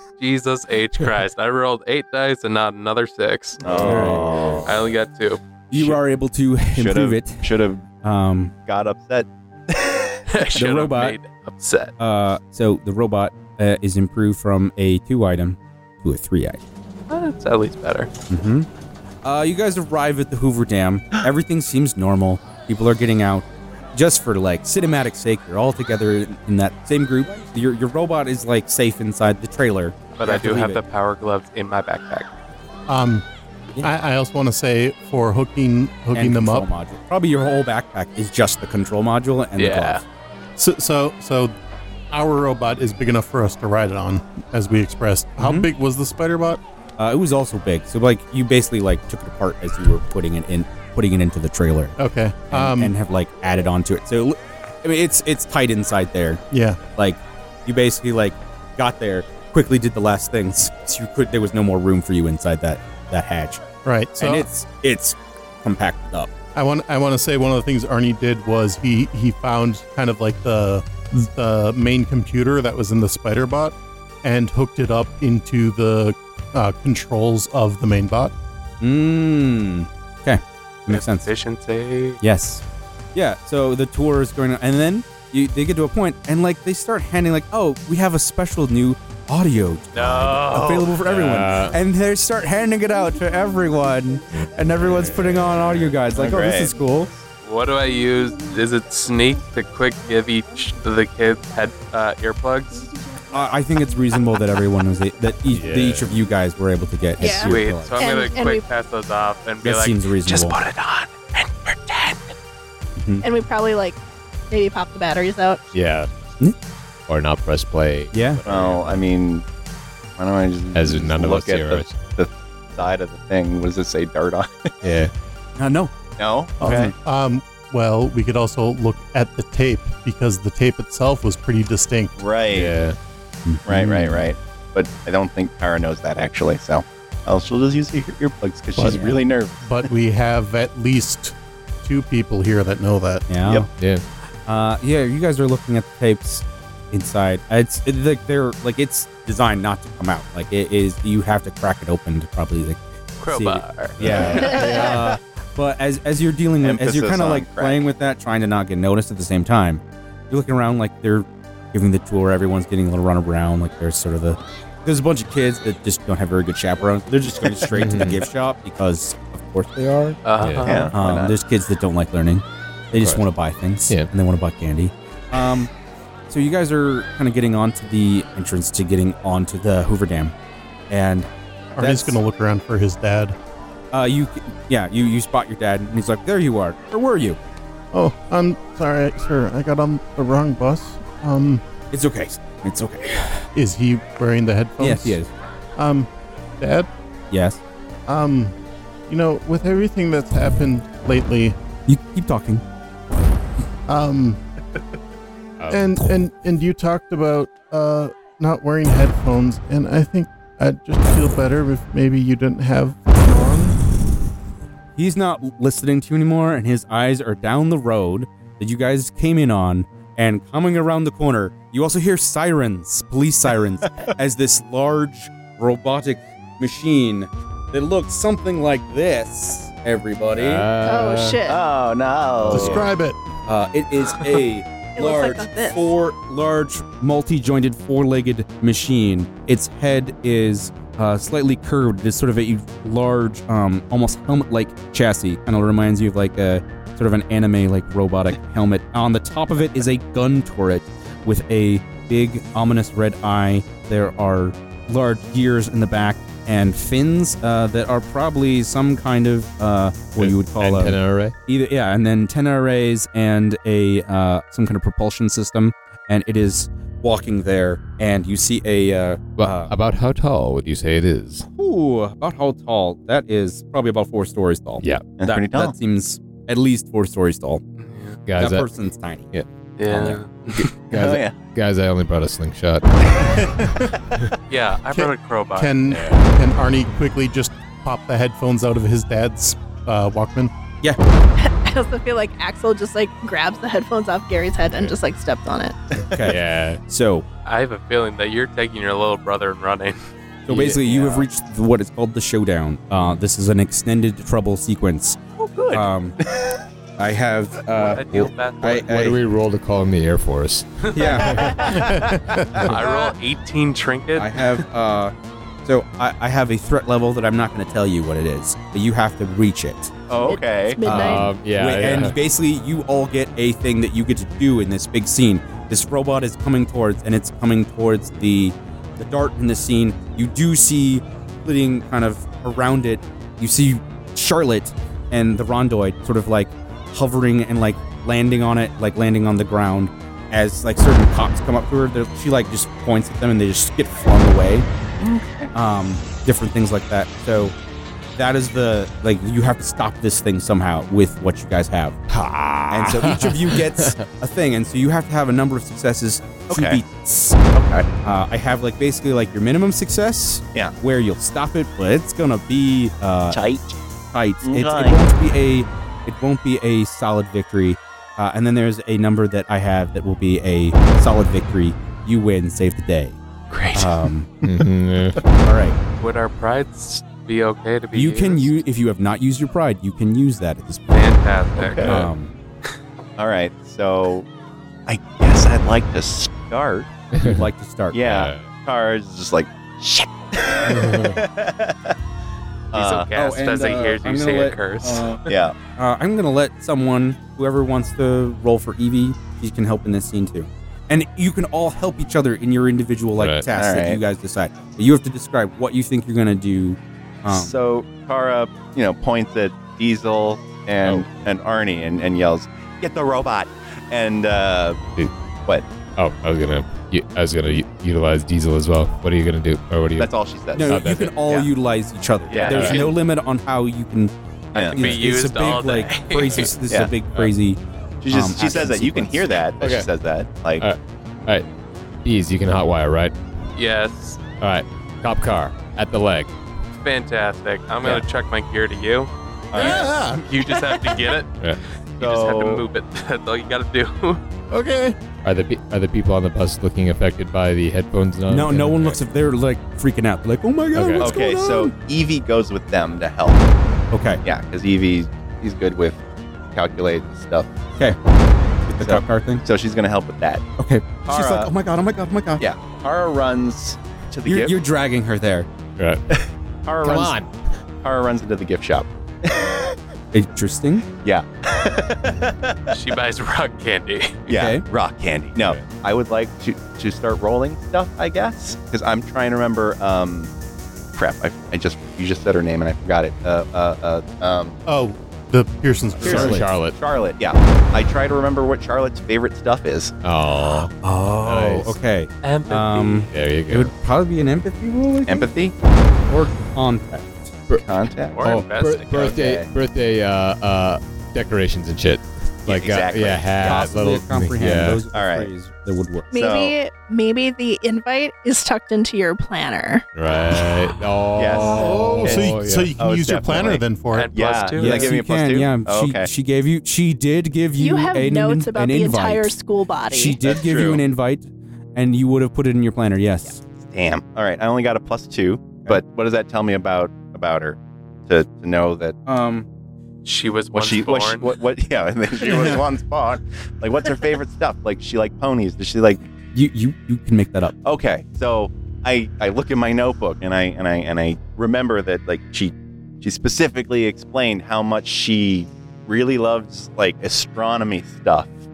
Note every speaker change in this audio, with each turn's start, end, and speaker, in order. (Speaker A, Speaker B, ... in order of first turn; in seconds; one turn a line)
Speaker A: 0.2-5.9
Speaker B: 3.6-4.7
Speaker C: 3.7-4.7
Speaker D: 3.8-4.3
Speaker D: 5.7-8.5
Speaker B: 6.7-7.9
Speaker B: 8.7-10.2
Speaker A: 10.3-11.9
Speaker D: 10.5-11.2
Speaker D: 12.0-16.6
Speaker A: 17.1-18.1
Speaker D: 18.3-18.7
Speaker D: 19.2-30.8
Speaker A: 30.2-32.3
Speaker E: 32.9-33.2
Speaker E: 33.8-36.7
Speaker D: 36.1-40.0
Speaker A: 39.6-40.0
Speaker E: 40.6-41.5
Speaker E: 42.1-46.6
Speaker D: 45.4-45.7
Speaker D: 47.0-52.0
Speaker E: 52.0-52.9
Speaker D: 52.5-56.4
Speaker E: 56.5-56.8
Speaker D: 57.0-63.6
Speaker E: 63.9-64.5
Speaker D: 64.2-66.3
Speaker E: 66.5-78.3
Speaker D: 78.8-81.3
Speaker A: 80.9-82.2
Speaker D: 82.2-82.6
Speaker D: 83.2-97.1
Speaker A: 89.9-90.9
Speaker C: 91.1-91.8
Speaker C: 94.4-96.0
Speaker B: 96.1-96.7
Speaker A: 97.4-102.9
Speaker D: 103.3-108.0
Speaker C: 105.5-106.2
Speaker F: 107.2-108.7
Speaker A: 107.3-112.4
Speaker D: 109.6-110.6
Speaker D: 113.0-113.2
Speaker F: 113.2-114.0
Speaker F: 114.5-115.6
Speaker C: 115.7-116.1
Speaker C: 117.1-119.0
Speaker D: 118.1-118.4
Speaker B: 118.5-119.5
Speaker B: 120.2-124.7
Speaker C: 120.7-122.0
Speaker C: 124.8-125.1
Speaker D: 125.6-126.0
Speaker B: 126.2-126.9
Speaker D: 126.6-126.9
Speaker E: 126.6-132.2
Speaker B: 132.2-132.8
Speaker C: 132.5-133.0
Speaker D: 133.5-134.2
Speaker B: 133.7-139.9
Speaker E: 138.8-139.1
Speaker E: 139.7-143.3
Speaker D: 143.3-143.7
Speaker C: 143.8-144.0
Speaker D: 144.5-170.2
Speaker A: 153.2-154.8
Speaker C: 154.0-155.1
Speaker B: 156.6-157.8
Speaker C: 167.8-168.2
Speaker A: 170.2-170.9
Speaker C: 170.4-170.9
Speaker B: 170.6-171.3
Speaker D: 170.9-175.7
Speaker C: 172.9-173.2
Speaker D: 176.3-180.3
Speaker D: 180.9-182.2
Speaker E: 181.8-183.4
Speaker D: 183.9-187.4
Speaker E: 187.9-191.6
Speaker D: 191.9-193.5
Speaker E: 193.6-195.2
Speaker D: 194.8-195.3
Speaker E: 195.8-196.1
Speaker E: 196.6-196.9
Speaker D: 197.3-197.6
Speaker E: 198.1-198.6
Speaker E: 199.1-201.6
Speaker D: 201.9-202.6
Speaker E: 203.9-204.4
Speaker C: 205.6-206.0
Speaker E: 205.7-213.8
Speaker D: 215.0-230.7
Speaker C: 230.4-231.4
Speaker F: 230.8-231.6
Speaker B: 231.4-232.9
Speaker C: 232.4-232.9
Speaker E: 232.5-233.2
Speaker D: 233.5-269.7
Speaker F: 235.0-235.8
Speaker C: 260.2-261.3
Speaker C: 269.4-271.5
Speaker D: 271.6-277.6
Speaker C: 274.8-275.2
Speaker B: 275.2-275.8
Speaker A: 277.8-278.2
Speaker C: 278.3-278.7
Speaker D: 278.4-279.3
Speaker C: 279.3-282.9
Speaker A: 279.8-280.8
Speaker B: 280.9-281.4
Speaker E: 283.6-283.9
Speaker A: 284.5-285.8
Speaker E: 284.9-290.5
Speaker C: 285.9-286.3
Speaker F: 291.4-295.8
Speaker D: 296.0-297.2
Speaker C: 296.2-296.8
Speaker A: 297.4-300.0
Speaker D: 300.5-305.2
Speaker B: 305.4-306.5
Speaker D: 305.7-306.2
Speaker D: 307.0-309.2
Speaker A: 307.8-308.9
Speaker C: 308.9-311.8
Speaker A: 310.9-311.8
Speaker D: 310.9-311.6
Speaker E: 311.7-312.7
Speaker A: 312.6-314.4
Speaker D: 314.2-315.1
Speaker D: 315.6-319.9
Speaker B: 320.1-320.8
Speaker F: 320.2-321.3
Speaker D: 320.8-344.7
Speaker C: 320.9-322.1
Speaker B: 345.0-345.5
Speaker D: 345.5-347.5
Speaker D: 348.2-352.0
Speaker C: 352.1-354.1
Speaker D: 352.7-357.4
Speaker B: 356.5-356.8
Speaker B: 357.5-357.9
Speaker D: 358.0-363.4
Speaker B: 363.3-363.8
Speaker D: 364.1-373.2
Speaker B: 364.4-365.0
Speaker B: 373.5-374.1
Speaker D: 373.7-374.3
Speaker C: 374.4-375.2
Speaker D: 375.4-375.8
Speaker A: 376.0-378.6
Speaker D: 377.9-381.1
Speaker A: 380.9-381.9
Speaker B: 381.6-382.0
Speaker D: 381.8-382.3
Speaker B: 383.2-384.3
Speaker B: 384.9-386.9
Speaker C: 387.1-387.4
Speaker D: 387.2-388.0
Speaker B: 387.9-392.0
Speaker C: 388.0-388.5
Speaker C: 390.7-391.2
Speaker B: 392.7-393.1
Speaker A: 392.7-395.1
Speaker D: 393.1-407.5
Speaker B: 395.3-395.6
Speaker C: 403.2-403.5
Speaker B: 403.5-404.0
Speaker B: 407.3-414.9
Speaker C: 410.8-411.1
Speaker C: 416.0-421.2
Speaker B: 420.0-421.5
Speaker D: 420.5-424.1
Speaker A: 422.3-422.9
Speaker B: 422.3-422.9
Speaker C: 422.5-422.9
Speaker B: 424.5-424.9
Speaker A: 424.6-426.5
Speaker D: 424.8-427.6
Speaker B: 426.7-426.9
Speaker B: 428.0-430.7
Speaker D: 428.1-429.3
Speaker C: 429.6-429.9
Speaker C: 430.6-431.4
Speaker C: 432.0-433.1
Speaker A: 433.6-434.2
Speaker C: 434.4-436.3
Speaker A: 436.8-441.3
Speaker B: 439.5-440.0
Speaker E: 439.6-441.0
Speaker A: 442.0-444.2
Speaker B: 442.0-442.6
Speaker E: 444.5-445.0
Speaker C: 445.2-449.0
Speaker D: 448.3-451.7
Speaker C: 450.8-451.1
Speaker B: 451.0-453.4
Speaker D: 453.9-454.2
Speaker B: 454.2-456.0
Speaker B: 456.5-457.5
Speaker D: 458.7-459.4
Speaker B: 458.8-460.4
Speaker D: 460.6-462.4
Speaker B: 461.1-461.5
Speaker B: 462.4-464.6
Speaker D: 464.3-465.5
Speaker B: 466.1-467.2
Speaker C: 466.8-467.3
Speaker B: 467.8-469.8
Speaker D: 470.1-470.9
Speaker B: 471.0-472.8
Speaker A: 472.7-474.3
Speaker B: 474.3-480.3
Speaker D: 474.3-474.6
Speaker C: 475.4-475.7
Speaker B: 480.9-484.6
Speaker E: 484.7-486.4
Speaker D: 486.0-486.4
Speaker B: 486.0-489.9
Speaker C: 486.1-486.8
Speaker C: 490.0-490.7
Speaker D: 490.8-495.3
Speaker C: 491.2-491.8
Speaker A: 492.2-493.1
Speaker C: 493.1-493.7
Speaker B: 495.1-495.5
Speaker D: 496.0-497.4
Speaker B: 497.5-499.5
Speaker A: 498.1-499.2
Speaker C: 498.2-504.9
Speaker B: 502.4-503.7
Speaker D: 503.4-506.1
Speaker B: 504.9-505.3
Speaker B: 506.1-506.6
Speaker F: 506.1-509.9
Speaker C: 509.9-512.7
Speaker B: 511.1-516.1
Speaker E: 511.6-514.2
Speaker A: 513.9-515.0
Speaker D: 514.6-523.4
Speaker F: 517.6-520.2
Speaker B: 520.3-520.8
Speaker B: 523.7-529.0
Speaker D: 529.1-529.5
Speaker A: 530.0-531.4
Speaker B: 530.5-536.1
Speaker D: 532.2-532.6
Speaker D: 536.3-537.5
Speaker B: 537.6-548.3